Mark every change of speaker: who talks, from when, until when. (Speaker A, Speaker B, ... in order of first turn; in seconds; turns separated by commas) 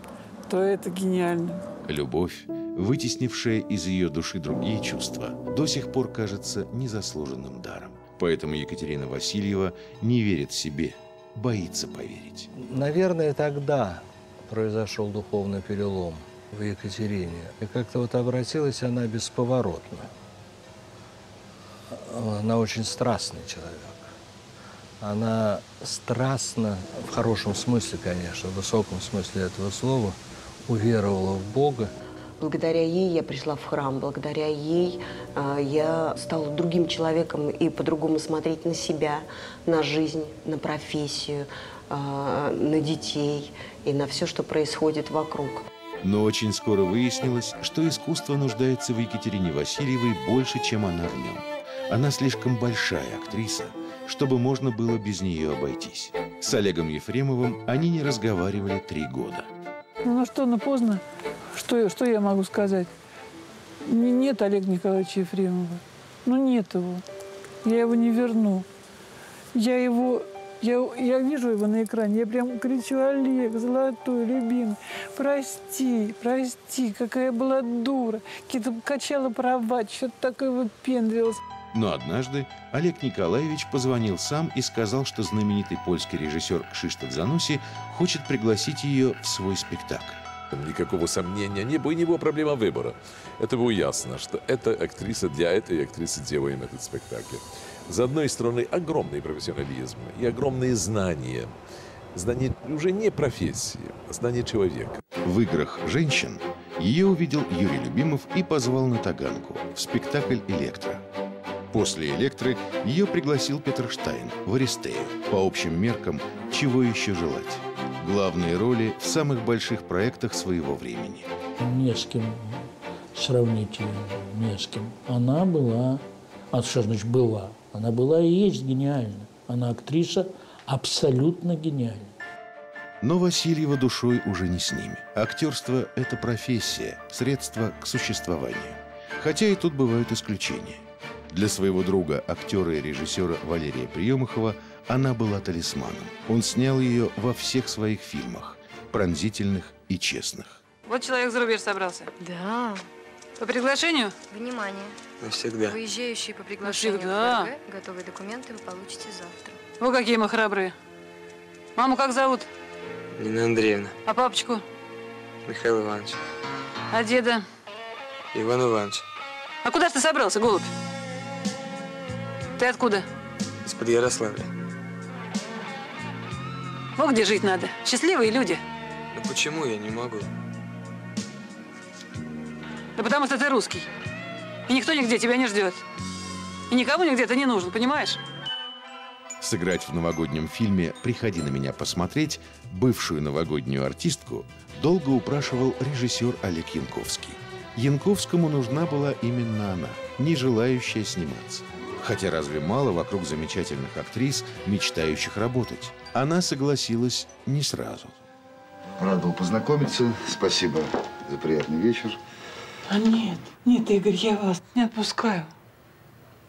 Speaker A: 0.5-1.6, Speaker B: 1.8-12.5, Speaker C: 12.5-20.1, Speaker C: 21.9-24.1, Speaker C: 25.0-31.9, Speaker D: 32.4-45.6, Speaker B: 46.0-59.5, Speaker A: 60.0-62.9, Speaker A: 63.8-67.0, Speaker A: 67.6-68.7, Speaker A: 69.5-81.4, Speaker B: 81.7-90.2, Speaker E: 90.5-101.5, Speaker E: 102.1-105.0, Speaker B: 105.2-111.0, Speaker B: 111.7-121.3, Speaker F: 121.6-132.1, Speaker B: 133.0-150.6, Speaker G: 150.8-152.1, Speaker H: 152.2-152.8, Speaker G: 153.4-154.1, Speaker H: 154.3-155.0, Speaker I: 155.2-155.8, Speaker H: 155.6-159.6, Speaker G: 156.6-157.5, Speaker G: 159.8-160.8, Speaker G: 161.8-162.5, Speaker I: 163.1-163.9, Speaker G: 164.1-164.6, Speaker I: 165.4-166.2, Speaker G: 166.9-167.4, Speaker I: 168.3-169.0, Speaker G: 169.6-170.7, Speaker G: 172.6-173.1, Speaker I: 173.6-174.5, Speaker G: 176.9-178.6, Speaker I: 179.1-180.3, Speaker G: 182.9-183.9, Speaker G: 184.7-185.8, Speaker G: 186.7-188.2, Speaker B: 189.4-208.2, Speaker J: 209.0-212.2, Speaker A: 212.9-215.5